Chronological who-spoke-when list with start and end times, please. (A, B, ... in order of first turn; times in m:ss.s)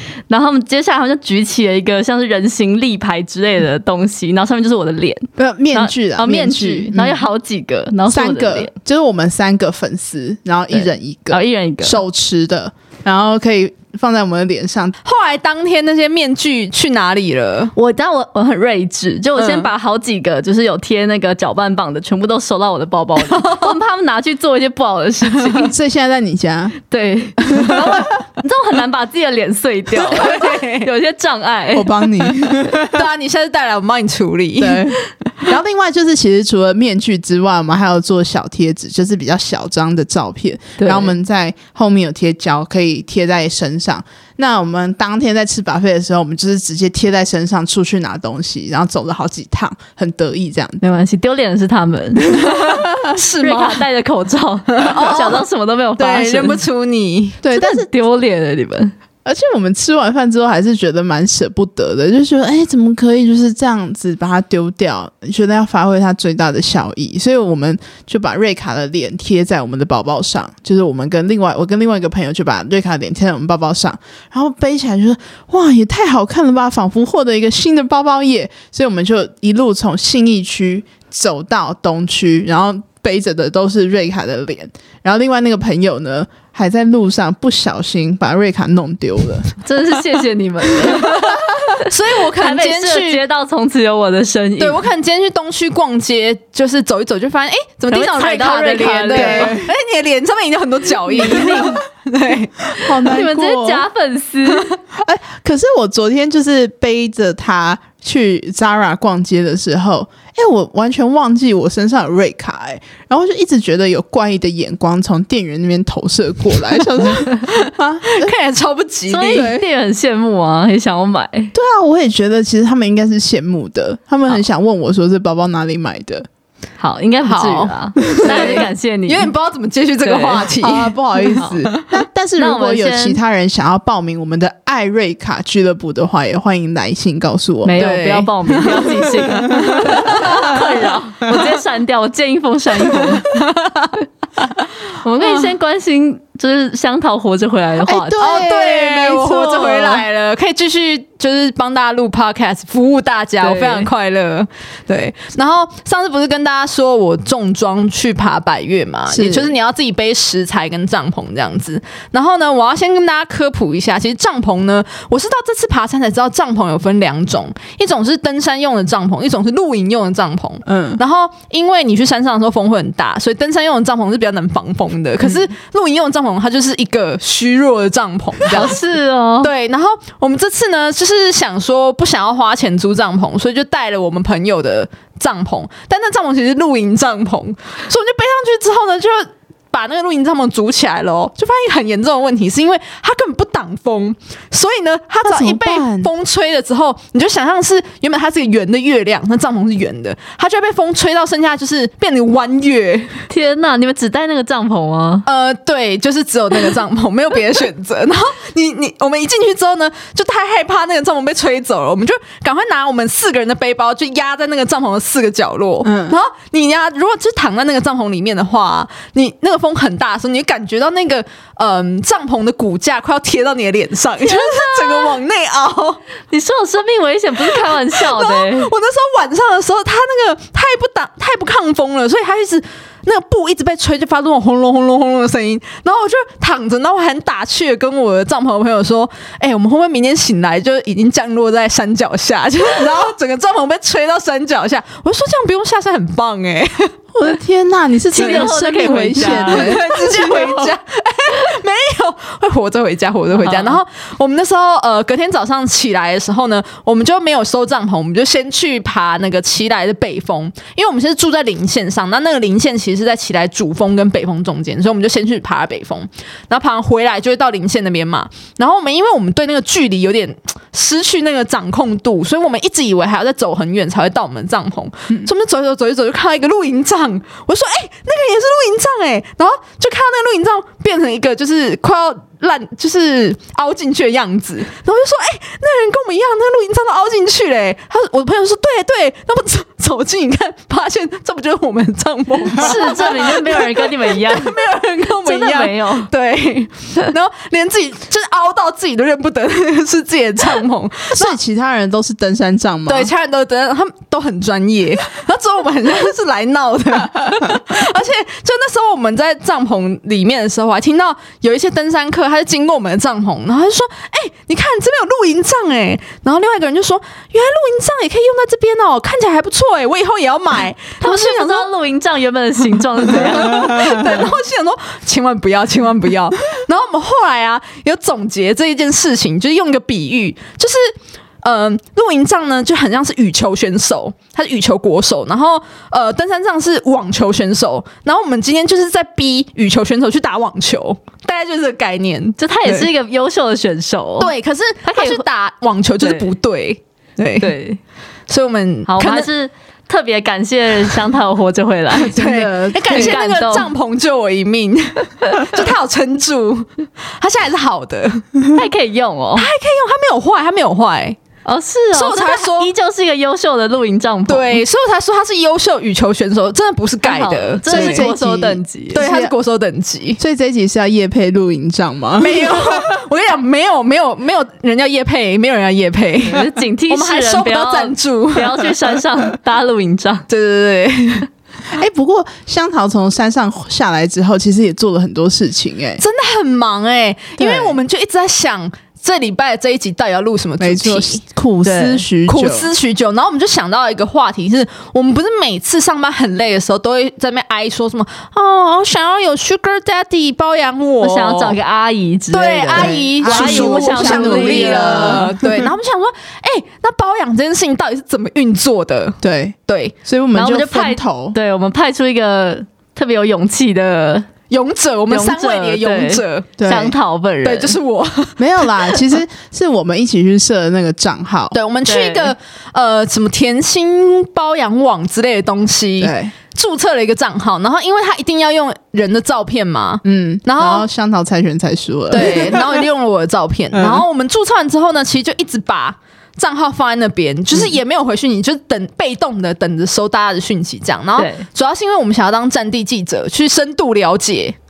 0:00.3-0:08.7 A
0:05.4-0:07.3 B
0:08.1-0:15.0 B
0:10.7-0:12.0 A
0:15.0-0:17.7 C
0:17.8-0:25.7 A
0:19.4-0:19.7 C
0:23.2-0:23.8 C
0:25.5-0:26.8 B
0:26.9-0:31.9 A
0:30.0-0:30.9 C
0:31.7-0:33.0 B
0:32.7-0:34.9 C
0:34.6-0:50.8 B
0:40.8-0:41.2 A
0:50.8-0:56.6 A
0:53.0-0:53.9 C
0:54.7-0:57.4 C
0:57.4-0:57.9 B
0:57.5-0:58.9 A
0:59.2-1:29.5 B
1:29.6-1:31.3 A
1:31.0-1:31.3 C
1:31.9-1:33.2 C
1:32.4-1:34.8 A
1:34.6-1:42.6 C
1:37.9-1:39.6 A
1:39.0-1:39.7 B
1:41.1-1:41.8 A
1:41.2-1:41.5 B
1:42.8-1:43.8 B
1:42.8-1:44.7 A
1:45.0-1:58.3 B
1:58.1-1:59.6 C
1:59.1-2:01.5 A
2:01.5-2:06.3 B
2:06.8-2:09.3 A
2:07.2-2:11.0 C
2:08.2-2:08.6 B
2:10.0-2:10.5 A
2:10.6-2:17.8 B
2:11.6-2:11.9 C
2:12.4-2:13.2 A
2:17.6-2:23.3 A
2:17.8-2:19.2 C
2:20.0-2:20.6 C
2:23.2-2:23.9 C
2:25.0-2:28.2 A
2:25.2-2:25.5 C
2:27.8-2:30.0 B
2:28.2-2:58.8 C
2:33.4-2:33.9 A
2:39.1-2:39.5 B
2:50.7-2:51.0 B
2:58.5-2:59.5 A
2:59.4-3:23.2 C
3:15.2-3:16.1 B
3:23.3-3:25.3 A
3:25.2-3:46.0 C
3:35.8-3:36.2 B
3:44.2-3:45.2 A
3:46.3-3:48.7 A
3:47.4-4:06.9 C
4:07.2-4:10.7 B
4:08.1-4:09.8 A
4:08.2-5:01.4 C
4:13.4-4:13.8 A
4:52.5-4:54.6 A
4:55.2-4:56.1 A
5:01.1-5:03.1 B
5:02.9-5:21.7 C
5:21.0-5:24.2 A
5:22.8-5:42.9 C
5:42.4-5:44.3 A
5:44.2-5:47.5 C
5:44.8-5:45.2 A
5:46.0-5:46.3 A
5:47.4-5:47.8 A
5:48.3-5:49.3 C
5:48.9-5:52.2 A
5:51.9-5:58.3 C
5:52.1-5:53.2 B
5:52.9-5:53.7 A
5:58.5-5:59.5 A
5:59.4-6:01.2 C
6:01.5-6:04.6 A
6:01.9-6:02.7 C
6:04.3-6:08.2 C
6:07.0-6:09.0 A
6:07.7-6:09.3 B
6:08.9-6:10.2 C
6:10.2-6:12.8 B
6:12.2-6:18.8 C
6:16.2-6:20.2 A
6:20.3-6:21.3 C
6:21.8-6:26.0 B
6:26.0-6:31.2 C
6:27.4-6:27.8 B
6:30.6-6:32.7 B
6:31.6-6:32.0 A
6:32.3-6:41.6 C
6:41.0-6:45.3 A
6:42.3-6:50.0 C
6:42.7-6:45.7 B
6:49.2-6:51.4 B
6:50.3-6:54.3 A
6:54.5-6:56.5 C
6:55.1-6:57.8 A
6:56.6-6:57.0 B
6:57.4-6:58.4 C
6:58.4-7:01.6 B
7:01.5-7:10.9 C
7:01.8-7:02.3 A
7:06.0-7:06.3 B
7:10.0-7:12.6 B
7:12.1-7:24.6 C
7:13.7-7:14.0 B
7:21.2-7:21.4 A